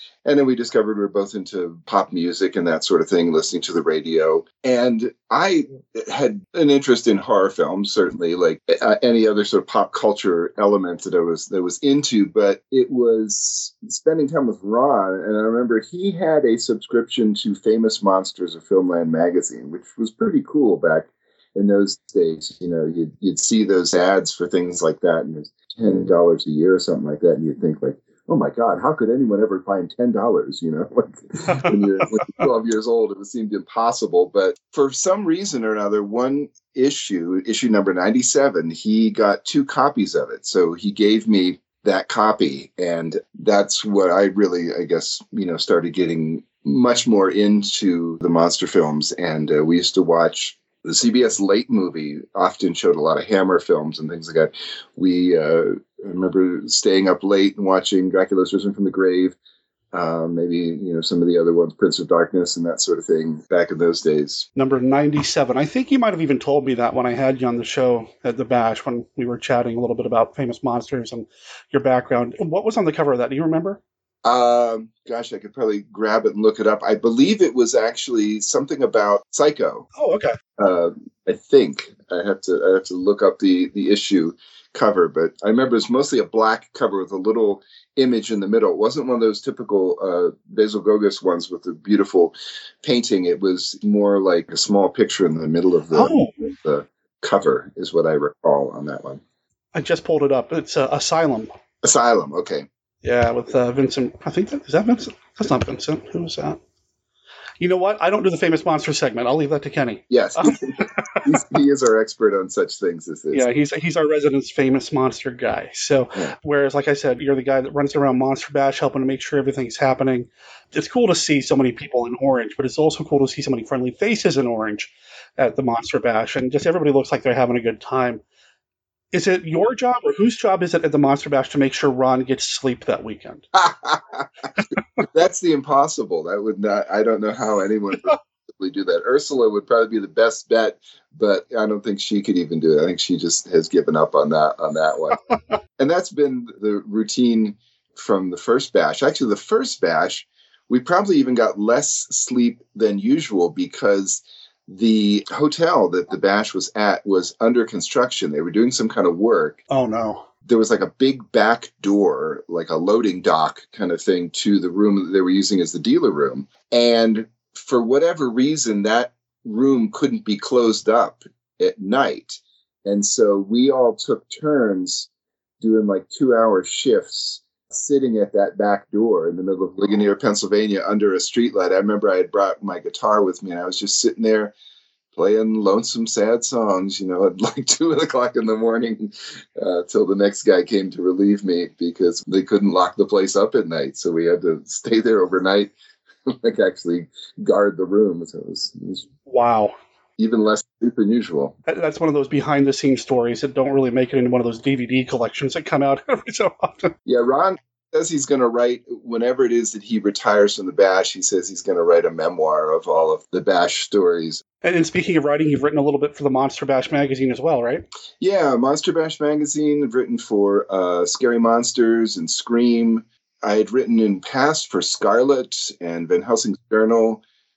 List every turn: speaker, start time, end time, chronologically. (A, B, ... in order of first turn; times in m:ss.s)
0:00.3-0:59.4 A
0:31.5-0:32.4 B
0:59.9-1:04.5 A
1:04.6-1:13.8 B
1:14.2-1:19.9 A
1:20.0-1:20.3 B
1:20.6-1:39.2 A
1:35.9-1:36.4 B
1:39.7-1:41.5 B
1:41.8-1:42.7 A
1:43.0-1:46.6 B
1:47.6-1:50.6 B
1:50.1-1:53.5 A
1:53.3-2:08.2 B
2:09.1-2:13.4 B
2:13.6-2:14.3 A
2:15.1-2:25.2 A
2:25.8-2:39.6 A
2:39.7-2:40.2 B
2:40.4-2:55.1 A
2:55.6-3:04.5 A
3:05.2-3:15.7 A
3:16.3-3:19.1 A
3:19.3-3:19.8 B
3:20.2-3:21.6 A
3:21.7-3:27.0 B
3:27.1-3:34.4 A
3:34.6-3:37.8 B
3:38.2-3:47.2 A